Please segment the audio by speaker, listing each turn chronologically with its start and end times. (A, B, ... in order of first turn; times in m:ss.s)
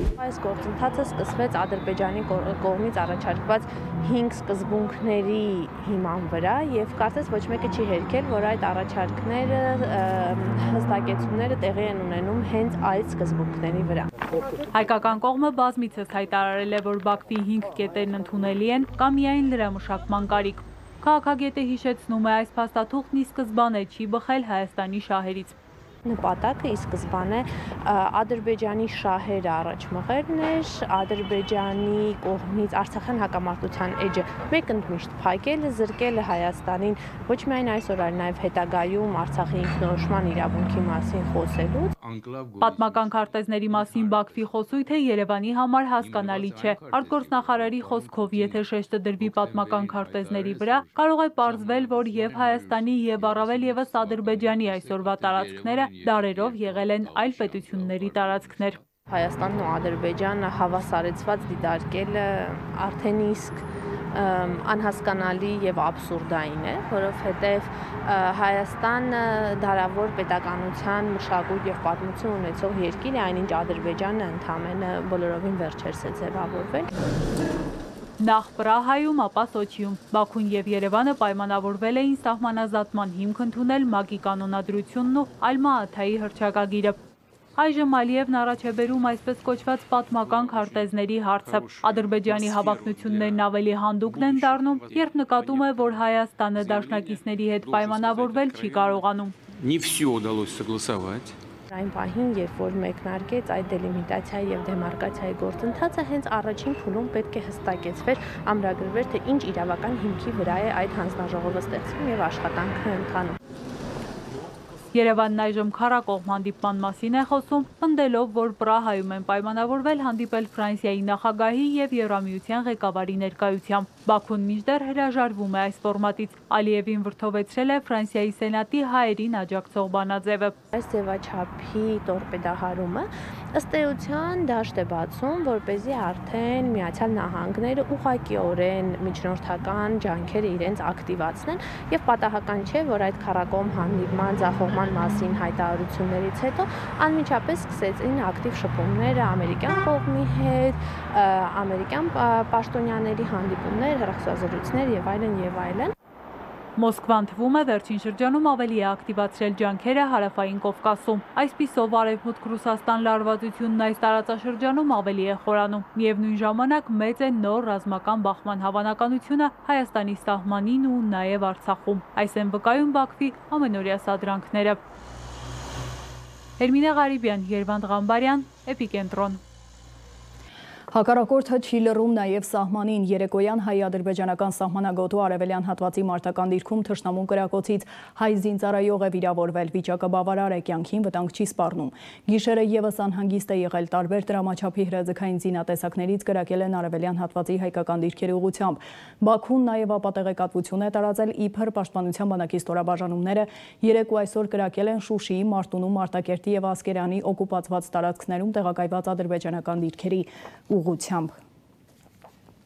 0:00.2-0:14.1 A
0:14.7-0:25.5 B
0:26.0-0:41.9 A
0:42.6-0:58.8 B
0:59.1-1:16.9 A
1:18.2-1:27.0 B
1:27.6-1:39.3 B
1:41.7-1:53.4 A
1:54.9-2:10.5 B
2:10.7-2:35.9 A
2:36.8-2:54.8 B
2:56.6-2:59.4 B
3:00.9-3:31.3 C